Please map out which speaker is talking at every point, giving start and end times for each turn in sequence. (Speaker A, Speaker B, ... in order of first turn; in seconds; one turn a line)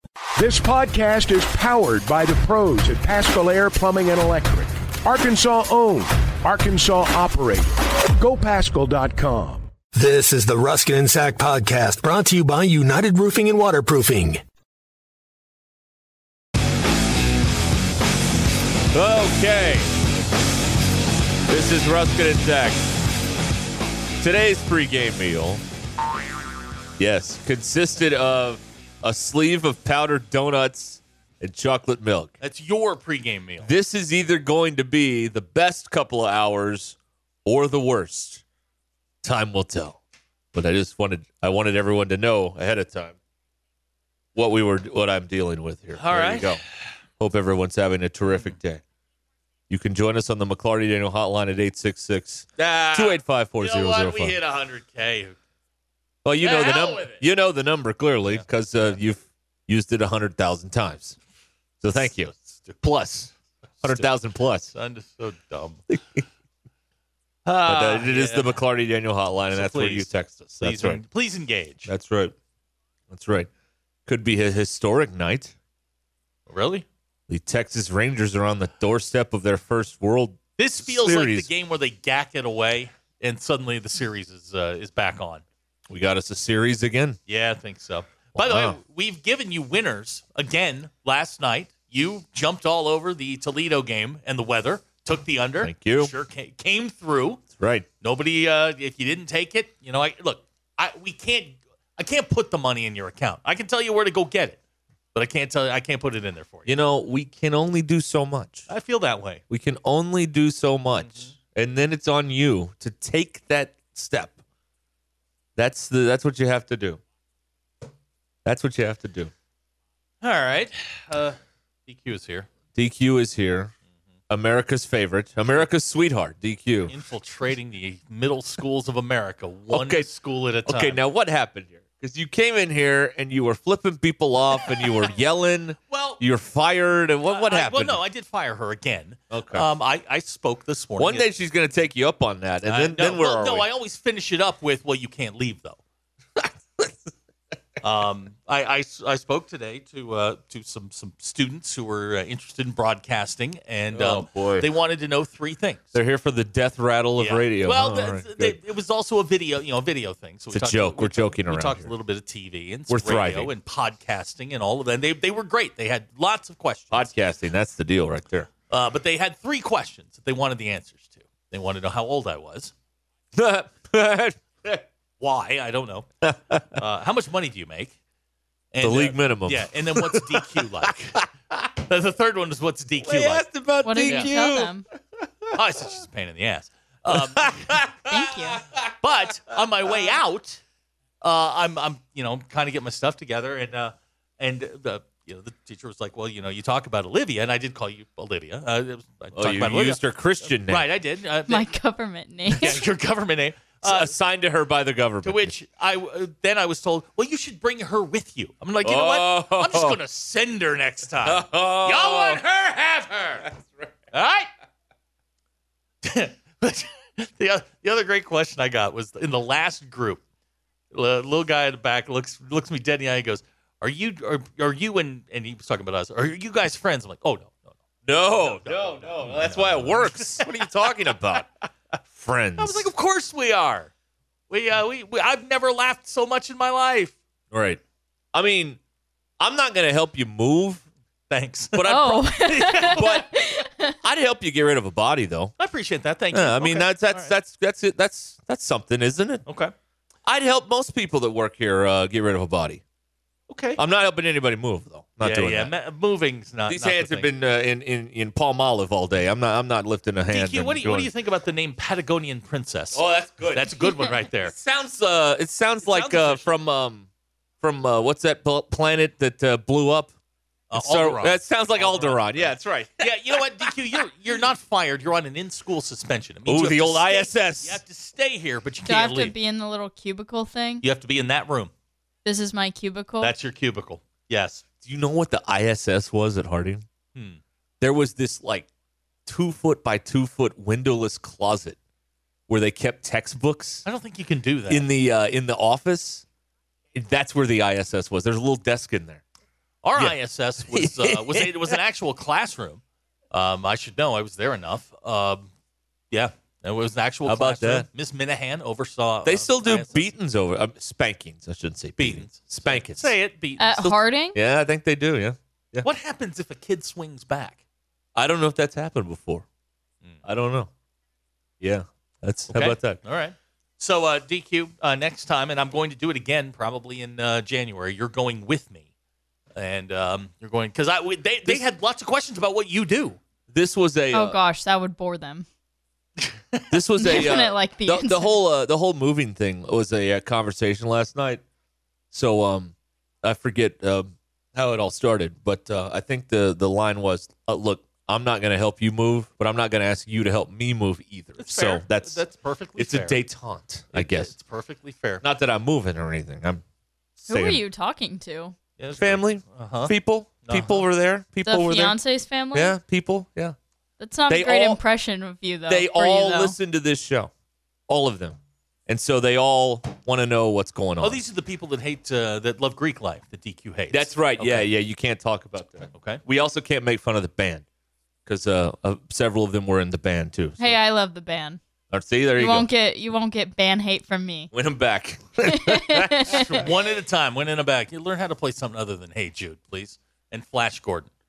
Speaker A: 0.3-9.7
Speaker B: 9.9-14.4
Speaker C: 18.9-19.9
Speaker C: 21.5-22.9
Speaker C: 24.2-25.6
Speaker C: 27.0-32.3
Speaker D: 32.4-33.7
Speaker C: 33.6-38.4
Speaker C: 39.2-40.0
Speaker C: 40.5-43.1
Speaker C: 44.3-46.6
Speaker D: 46.0-46.6
Speaker C: 47.2-48.8
Speaker C: 49.7-54.4
Speaker D: 52.6-55.4
Speaker C: 56.2-61.2
Speaker D: 56.4-57.2
Speaker C: 61.8-63.3
Speaker D: 62.0-62.8
Speaker D: 63.8-64.1
Speaker C: 63.8-64.7
Speaker D: 64.7-65.8
Speaker C: 65.9-66.2
Speaker D: 67.4-68.6
Speaker C: 67.6-71.0
Speaker D: 69.5-70.1
Speaker D: 70.6-71.9
Speaker C: 71.9-72.3
Speaker C: 73.1-73.5
Speaker C: 74.0-75.5
Speaker D: 76.5-76.8
Speaker C: 77.3-81.5
Speaker D: 80.6-85.4
Speaker C: 85.9-87.2
Speaker D: 87.3-97.4
Speaker C: 88.3-88.8
Speaker C: 95.6-96.1
Speaker C: 97.6-97.9
Speaker D: 98.0-104.6
Speaker D: 105.1-106.7
Speaker C: 106.7-108.7
Speaker D: 108.7-109.4
Speaker C: 109.5-114.4
Speaker D: 111.0-111.3
Speaker C: 115.6-117.0
Speaker C: 118.4-119.3
Speaker D: 120.2-122.5
Speaker C: 122.7-123.7
Speaker C: 124.3-126.9
Speaker D: 126.9-131.0
Speaker C: 129.7-130.1
Speaker C: 130.6-138.0
Speaker D: 135.9-136.2
Speaker D: 137.3-141.3
Speaker C: 139.3-139.7
Speaker C: 141.0-143.7
Speaker D: 142.7-145.8
Speaker C: 146.4-146.9
Speaker D: 147.8-156.0
Speaker C: 153.9-154.7
Speaker C: 155.9-158.6
Speaker D: 157.2-167.1
Speaker C: 160.5-161.9
Speaker C: 162.9-163.5
Speaker C: 166.9-168.5
Speaker D: 168.7-172.7
Speaker C: 173.3-174.8
Speaker D: 175.2-176.1
Speaker C: 176.2-176.8
Speaker D: 176.7-177.9
Speaker D: 178.7-181.2
Speaker C: 178.8-180.7
Speaker D: 181.8-183.5
Speaker C: 183.0-185.3
Speaker E: 183.8-184.8
Speaker D: 185.5-187.9
Speaker C: 187.1-190.1
Speaker E: 188.1-188.6
Speaker D: 189.0-190.6
Speaker D: 191.2-201.7
Speaker C: 199.3-200.9
Speaker E: 201.5-202.8
Speaker D: 202.5-204.1
Speaker C: 203.8-205.5
Speaker D: 205.2-213.4
Speaker C: 208.8-210.0
Speaker C: 211.2-212.4
Speaker C: 213.4-213.9
Speaker D: 214.1-214.5
Speaker D: 216.0-220.2
Speaker D: 220.9-231.1
Speaker C: 228.1-231.5
Speaker C: 232.1-232.9
Speaker D: 232.6-233.9
Speaker D: 234.5-237.2
Speaker C: 237.5-237.8
Speaker C: 238.3-238.8
Speaker C: 239.4-240.8
Speaker D: 241.3-243.2
Speaker C: 241.7-243.3
Speaker E: 241.8-243.9
Speaker C: 244.0-245.5
Speaker D: 245.6-247.3
Speaker C: 246.3-249.4
Speaker D: 249.4-249.7
Speaker C: 250.2-252.8
Speaker D: 253.5-253.8
Speaker C: 253.8-255.7
Speaker D: 255.2-257.3
Speaker C: 256.7-261.1
Speaker D: 260.3-264.5
Speaker C: 262.9-267.1
Speaker D: 265.8-266.5
Speaker C: 267.6-270.1
Speaker D: 270.7-279.3
Speaker C: 270.7-273.4
Speaker C: 276.4-277.8
Speaker E: 278.9-280.8
Speaker D: 280.8-281.7
Speaker E: 282.2-283.3
Speaker D: 283.2-284.6
Speaker C: 284.8-286.8
Speaker D: 287.1-287.4
Speaker C: 287.8-288.7
Speaker C: 289.2-291.8
Speaker C: 292.5-293.8
Speaker D: 293.8-294.9
Speaker C: 294.7-296.2
Speaker C: 296.9-299.2
Speaker D: 299.8-305.4
Speaker C: 300.7-301.8
Speaker D: 306.1-310.1
Speaker C: 307.2-307.9
Speaker C: 309.2-313.1
Speaker D: 312.0-313.9
Speaker E: 313.6-314.4
Speaker C: 313.8-315.9
Speaker D: 315.8-317.6
Speaker C: 318.1-319.4
Speaker C: 320.2-320.7
Speaker C: 321.6-323.0
Speaker D: 322.5-328.9
Speaker D: 329.5-333.2
Speaker C: 333.5-334.4
Speaker E: 334.1-335.4
Speaker C: 336.7-341.4
Speaker E: 337.0-338.4
Speaker C: 342.1-352.2
Speaker D: 351.4-353.2
Speaker C: 352.8-354.3
Speaker D: 353.9-355.2
Speaker C: 355.2-356.6
Speaker C: 357.2-357.6
Speaker E: 357.3-358.6
Speaker D: 358.8-359.9
Speaker C: 358.9-362.0
Speaker D: 360.4-360.9
Speaker E: 361.4-362.8
Speaker C: 362.5-363.6
Speaker E: 364.0-366.6
Speaker C: 364.3-364.8
Speaker C: 365.7-367.3
Speaker C: 367.9-371.2
Speaker D: 371.0-374.7
Speaker C: 373.9-377.6
Speaker D: 375.9-376.2
Speaker C: 378.2-380.8
Speaker E: 380.6-381.6
Speaker C: 381.9-382.7
Speaker E: 382.4-384.5
Speaker C: 384.5-386.7
Speaker E: 385.5-386.5
Speaker D: 386.3-391.1